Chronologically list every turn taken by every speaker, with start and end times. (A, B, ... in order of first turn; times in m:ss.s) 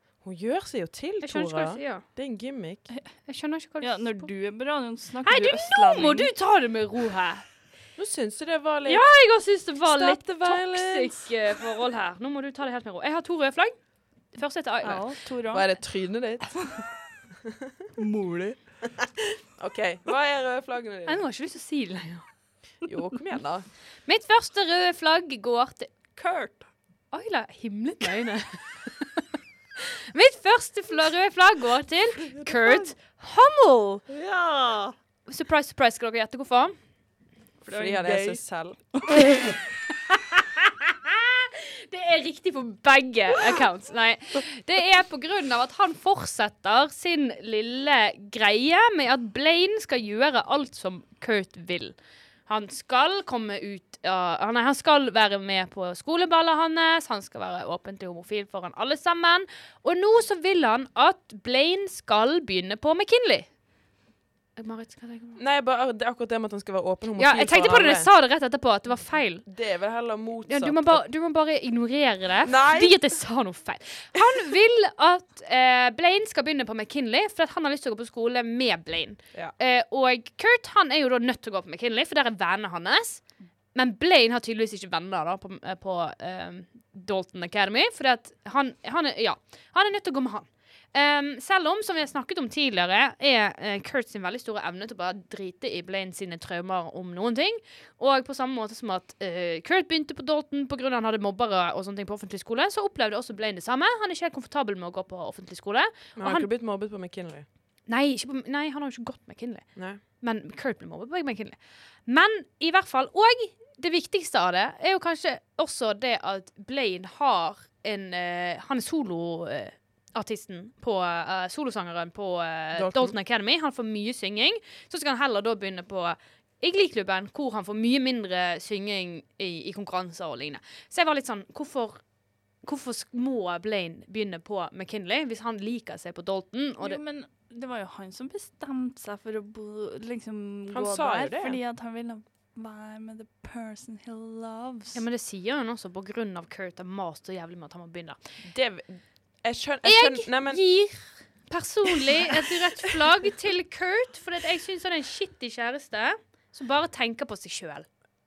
0:00.2-0:02.9 A
0:01.2-0:02.0 B
0:03.2-0:04.3 B
0:03.8-0:06.3 C
0:05.2-0:07.4 B
0:08.0-0:09.1 A
0:08.9-0:15.1 B
0:09.8-0:11.4 A
0:14.8-0:15.8 C
0:15.5-0:16.8 A
0:18.0-0:18.6 C
0:19.6-0:21.2 A
0:21.0-0:22.4 B
0:22.8-0:23.7 A
0:24.0-0:25.9 B
0:26.2-0:26.7 C
0:27.1-0:29.2 B
0:30.1-0:34.0 B
0:32.4-0:32.8 C
0:34.1-0:34.9 C
0:35.3-0:36.7 B
0:37.6-0:38.4 C
0:37.7-0:38.8 A
0:40.1-1:03.5 B
1:04.6-1:05.4 B
1:05.4-1:08.1 A
1:07.2-1:09.4 B
1:09.4-1:11.0 A
1:10.5-1:46.5 B
1:12.4-1:13.0 A
1:46.2-1:47.4 A
1:47.9-2:12.0 B
1:49.8-1:50.0 A
2:02.7-2:03.1 A
2:12.6-2:17.0 B
2:16.8-2:25.0 C
2:20.7-2:21.6 A
2:24.9-2:28.2 B
2:28.4-2:30.6 A
2:29.8-2:37.8 B